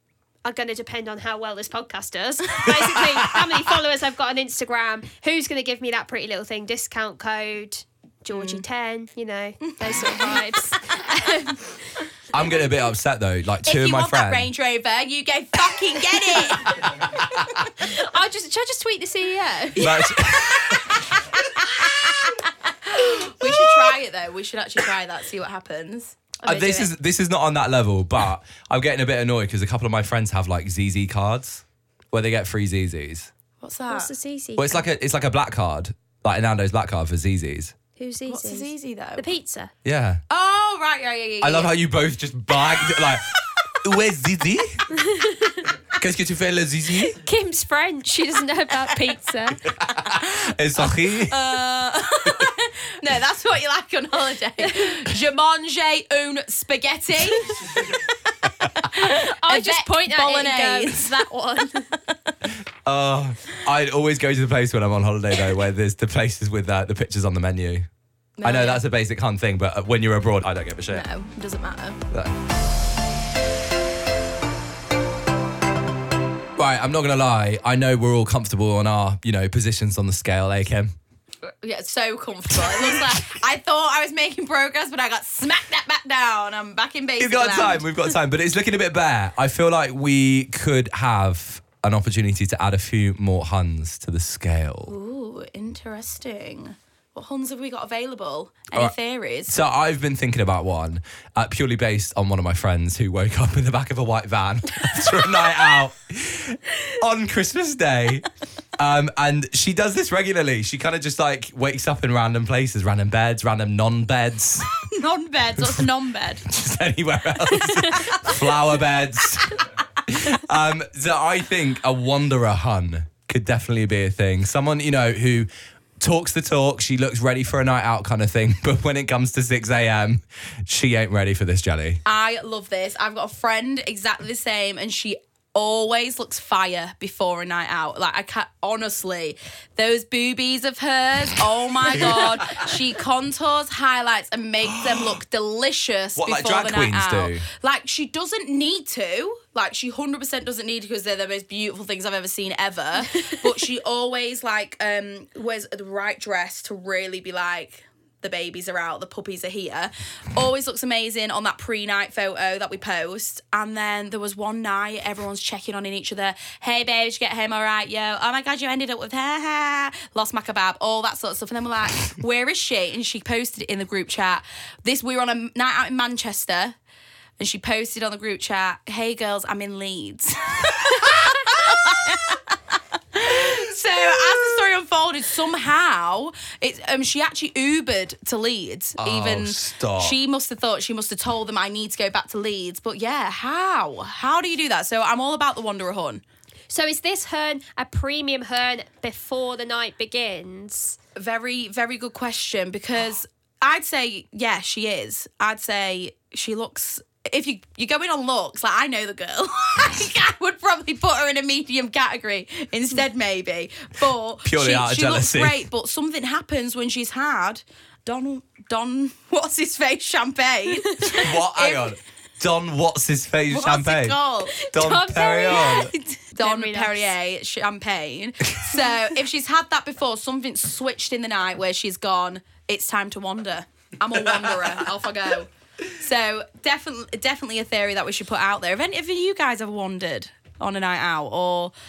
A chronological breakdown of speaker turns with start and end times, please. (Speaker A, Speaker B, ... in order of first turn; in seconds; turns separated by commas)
Speaker A: 0.4-11.8, Speaker B: 3.0-3.5, Speaker C: 8.3-8.6, Speaker C: 9.6-11.5, Speaker B: 12.3-14.5, Speaker C: 13.6-17.7, Speaker A: 17.8-19.9, Speaker B: 19.8-21.0, Speaker C: 19.8-26.9, Speaker B: 26.4-33.3, Speaker C: 33.6-34.1, Speaker A: 33.9-34.8, Speaker B: 34.5-37.7, Speaker A: 38.0-39.7, Speaker C: 38.3-39.2, Speaker B: 39.8-40.2, Speaker C: 40.3-41.7, Speaker B: 41.4-43.3, Speaker C: 42.7-43.8, Speaker B: 43.8-44.9, Speaker A: 44.9-45.7, Speaker B: 45.9-47.2, Speaker A: 47.0-49.6, Speaker B: 49.8-51.5, Speaker C: 50.8-61.3, Speaker A: 58.9-62.0, Speaker C: 62.1-62.4, Speaker B: 62.9-67.9, Speaker C: 68.4-68.8, Speaker B: 68.4-71.1, Speaker C: 70.9-72.0, Speaker B: 76.6-80.9, Speaker C: 81.5-87.9, Speaker B: 87.2-94.9, Speaker C: 94.9-99.6, Speaker B: 99.5-114.7, Speaker C: 114.7-116.5, Speaker B: 115.6-115.9, Speaker B: 116.5-125.5, Speaker C: 117.8-118.5, Speaker B: 126.0-132.0, Speaker C: 132.0-176.8, Speaker B: 142.0-142.6, Speaker B: 144.8-145.1, Speaker B: 146.2-147.4, Speaker C: 177.4-196.2, Speaker B: 189.0-190.2, Speaker A: 196.7-201.0, Speaker C: 201.2-222.0, Speaker B: 214.4-215.7, Speaker A: 220.8-221.3, Speaker B: 221.0-224.2, Speaker C: 223.5-241.7, Speaker A: 224.6-227.1, Speaker B: 224.7-225.9, Speaker B: 234.3-234.8